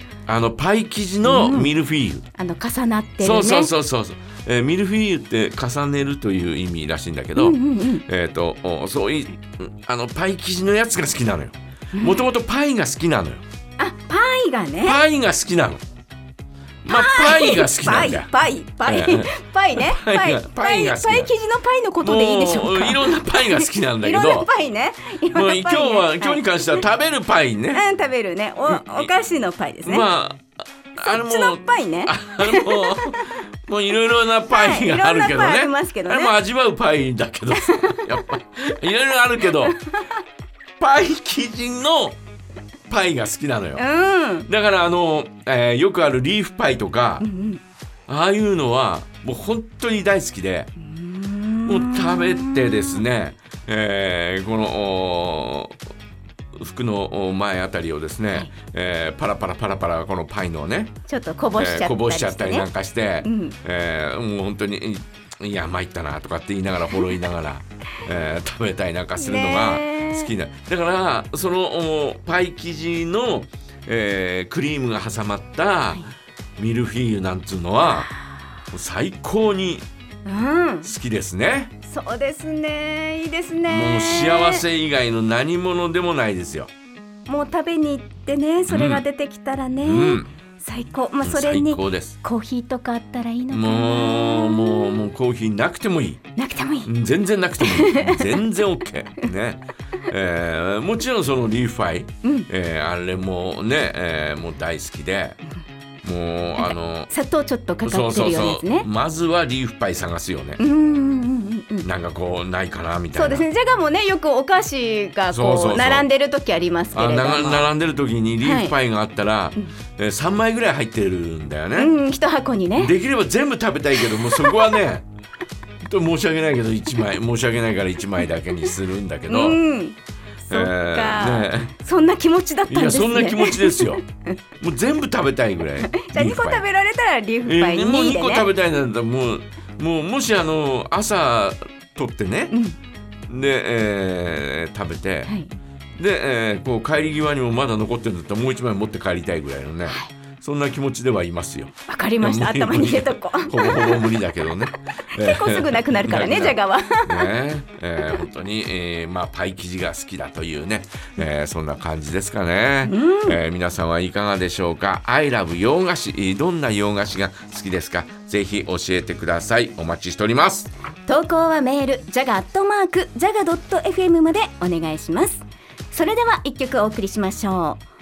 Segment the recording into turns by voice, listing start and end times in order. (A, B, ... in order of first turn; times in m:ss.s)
0:00.3-0:02.2 A
0:01.2-0:01.7 B
0:02.3-0:03.7 B
0:03.2-0:13.4 A
0:07.4-0:08.0 B
0:11.9-0:12.2 B
0:13.8-0:15.0 B
0:14.8-0:15.8 A
0:16.8-0:18.3 A
0:16.9-0:26.8 B
0:18.8-0:21.3 A
0:22.0-0:24.5 A
0:25.2-0:27.8 A
0:27.7-0:30.0 B
0:28.7-0:29.1 A
0:29.8-0:30.4 A
0:30.9-0:39.8 A
0:31.0-0:33.3 B
0:34.5-0:36.3 B
0:37.6-0:38.0 B
0:40.8-0:42.2 A
0:42.9-0:43.8 A
0:43.8-0:44.5 B
0:44.4-0:47.2 A
0:47.2-0:47.6 B
0:48.1-0:50.7 A
0:50.8-0:53.0 B
0:51.6-0:55.8 A
0:56.6-1:00.9 A
1:01.1-1:02.7 B
1:01.6-1:18.1 A
1:03.2-1:03.6 B
1:09.2-1:10.3 B
1:18.7-1:19.8 A
1:20.2-1:20.9 B
1:20.8-1:21.7 A
1:21.8-1:24.6 B
1:23.6-1:26.7 A
1:27.3-1:35.1 B
1:28.7-1:29.0 A
1:29.8-1:30.3 A
1:31.2-1:32.2 A
1:33.5-1:36.2 A
1:36.4-1:36.9 B
1:36.8-1:45.4 A
1:37.6-1:38.4 B
1:46.0-1:47.1 A
1:46.6-1:48.9 B
1:47.8-1:50.6 A
1:50.6-1:51.9 B
1:51.8-1:53.4 A
1:53.1-1:57.7 B
1:55.3-1:56.0 A
1:56.9-2:01.9 A
1:58.4-1:58.7 B
2:01.7-2:02.9 B
2:02.8-2:05.0 A
2:04.0-2:04.7 B
2:05.8-2:09.6 A
2:09.3-2:14.2 B
2:10.5-2:11.7 A
2:12.7-2:14.0 A
2:14.6-2:16.6 A
2:15.9-2:18.5 B
2:17.4-2:22.6 A
2:22.5-2:22.8 B
2:23.3-2:25.3 A
2:26.0-2:50.7 A
2:31.9-2:34.2 B
2:35.1-2:37.3 B
2:42.8-2:43.4 B
2:51.0-2:57.8 B